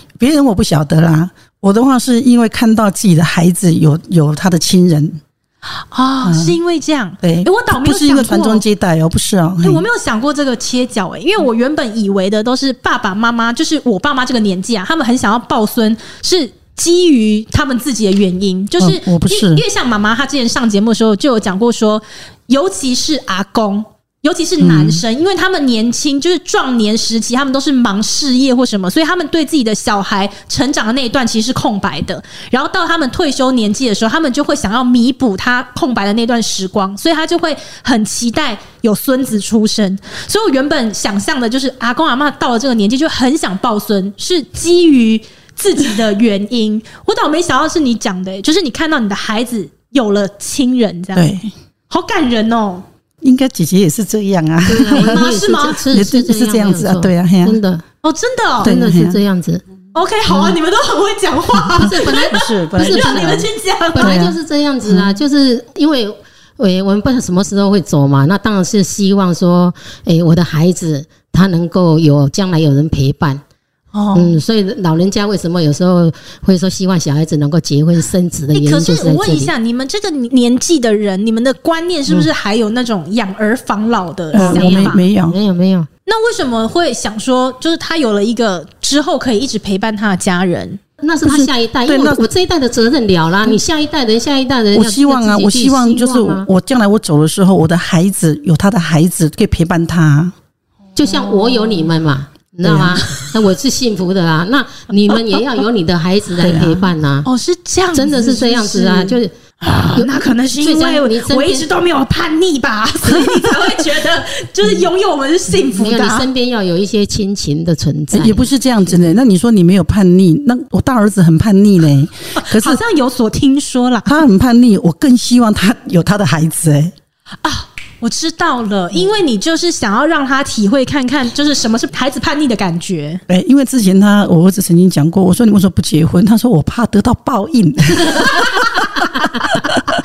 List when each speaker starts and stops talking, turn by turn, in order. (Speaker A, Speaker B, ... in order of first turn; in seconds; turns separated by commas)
Speaker A: 0.2-5.2, Speaker B: 5.8-8.6, Speaker A: 6.2-6.6, Speaker A: 7.2-9.8, Speaker B: 9.6-51.3, Speaker A: 18.8-19.6, Speaker A: 24.6-25.0, Speaker A: 51.1-51.5, Speaker B: 51.9-52.8, Speaker A: 53.2-55.4, Speaker C: 54.6-57.8, Speaker B: 54.9-55.8, Speaker A: 55.9-57.6, Speaker B: 58.0-58.8, Speaker A: 58.6-59.2, Speaker C: 58.6-59.6, Speaker B: 59.9-64.2, Speaker A: 61.7-65.2, Speaker C: 61.8-62.1, Speaker C: 62.7-63.4, Speaker C: 63.9-73.4, Speaker B: 73.9-74.4, Speaker C: 74.1-79.5, Speaker B: 78.5-85.0, Speaker A: 84.3-85.4, Speaker C: 84.3-85.9, Speaker B: 86.0-90.8, Speaker C: 91.0-96.5, Speaker A: 91.2-92.3, Speaker A: 94.7-100.3, Speaker C: 101.0-107.3, Speaker A: 102.6-103.3, Speaker A: 106.4-106.9, Speaker B: 107.2-116.3, Speaker C: 107.9-111.7, Speaker C: 115.6-119.1, Speaker A: 118.1-122.8, Speaker B: 122.4-124.2, Speaker A: 124.0-126.9, Speaker B: 127.4-133.2, Speaker A: 133.3-138.8, Speaker A: 139.5-139.8